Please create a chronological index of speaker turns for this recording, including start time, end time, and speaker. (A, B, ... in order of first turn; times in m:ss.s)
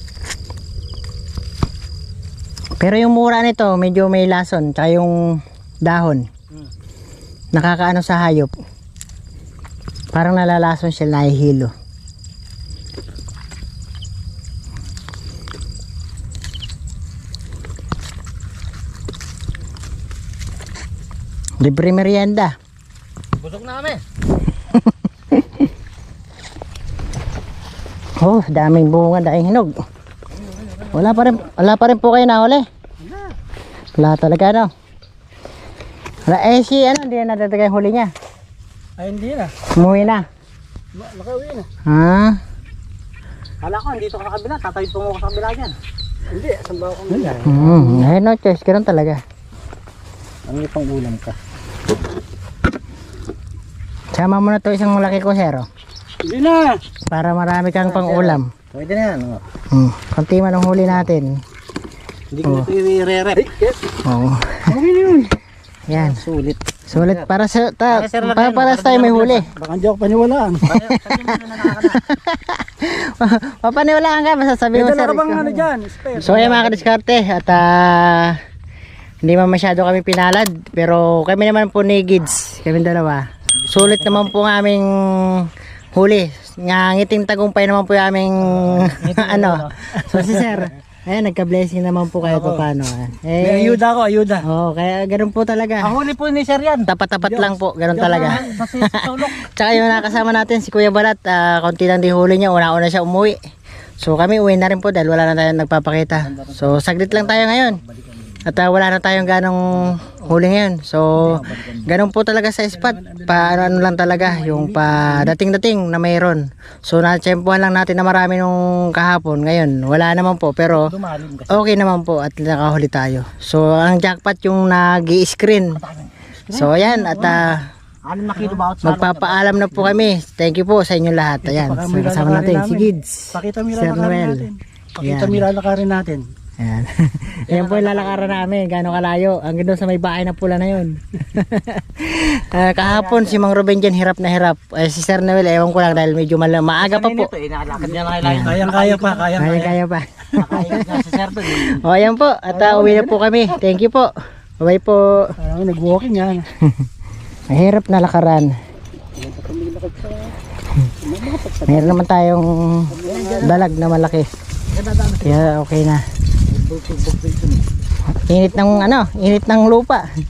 0:02.8-0:06.3 A
0:07.5-0:08.5 A
0:10.1-0:11.7 A
0:21.6-0:22.5 A
0:23.4-0:24.0 B
0:24.7-0:25.5 A
0:28.2-0:29.7 A
0:30.4-0:31.3 B
0:30.9-0:32.6 A
0:33.0-0:33.3 C
0:34.0-0:34.7 A
0:36.2-0:38.1 A
0:39.0-0:39.8 C
0:39.7-0:40.3 A
0:40.9-0:41.7 C
0:41.8-0:42.4 A
0:43.6-0:45.8 B
0:46.3-0:48.0 C
0:47.1-0:47.8 B
0:47.4-0:49.2 A
0:50.5-0:51.4 B
0:54.1-0:55.7 A
0:56.2-0:56.8 C
0:57.1-0:58.5 A
0:57.8-0:59.4 B
0:59.7-1:01.4 A
1:02.3-1:03.5 B
1:02.4-1:02.7 A
1:03.4-1:03.8 C
1:04.0-1:04.7 A
1:04.7-1:05.3 C
1:05.9-1:06.2 A
1:05.9-1:07.3 B
1:06.9-1:09.5 A
1:07.9-1:09.4 B
1:09.4-1:10.7 C
1:10.7-1:12.0 B
1:10.9-1:15.5 A
1:14.7-1:16.9 C
1:16.2-1:18.4 A
1:19.2-1:33.8 A
1:23.6-1:24.3 B
1:28.5-1:30.6 B
1:32.3-1:32.6 C
1:33.4-1:34.4 C
1:34.4-1:36.0 A
1:35.8-1:36.9 B
1:36.9-1:43.4 A
1:37.3-1:38.5 C
1:37.9-1:39.4 B
1:44.0-1:47.8 A
1:46.2-1:48.5 B
1:48.4-2:00.9 A
1:51.1-1:51.9 B
1:52.8-1:55.3 C
2:00.7-2:01.7 B
2:01.5-2:05.8 A
2:05.8-2:07.4 B
2:06.5-2:07.7 A
2:06.7-2:07.4 C
2:08.0-2:10.0 B
2:08.8-2:14.5 A
2:11.4-2:16.3 C
2:15.0-2:15.4 A
2:16.6-2:27.3 A
2:17.5-2:18.5 B
2:22.8-2:23.4 B
2:26.8-2:29.7 B
2:27.7-2:29.7 C
2:28.2-2:28.6 A
2:29.4-2:35.3 A
2:30.4-2:31.8 B
2:32.5-2:33.2 C
2:35.4-2:36.5 C
2:36.6-2:36.9 A
2:37.5-2:38.5 A
2:39.2-2:40.3 C
2:41.0-2:42.0 C
2:41.6-2:44.3 A
2:42.9-2:44.0 C
2:43.0-2:43.7 B
2:44.7-2:45.4 B
2:45.2-2:46.0 A
2:46.5-2:47.6 B
2:48.2-2:50.0 A
2:48.4-2:48.8 C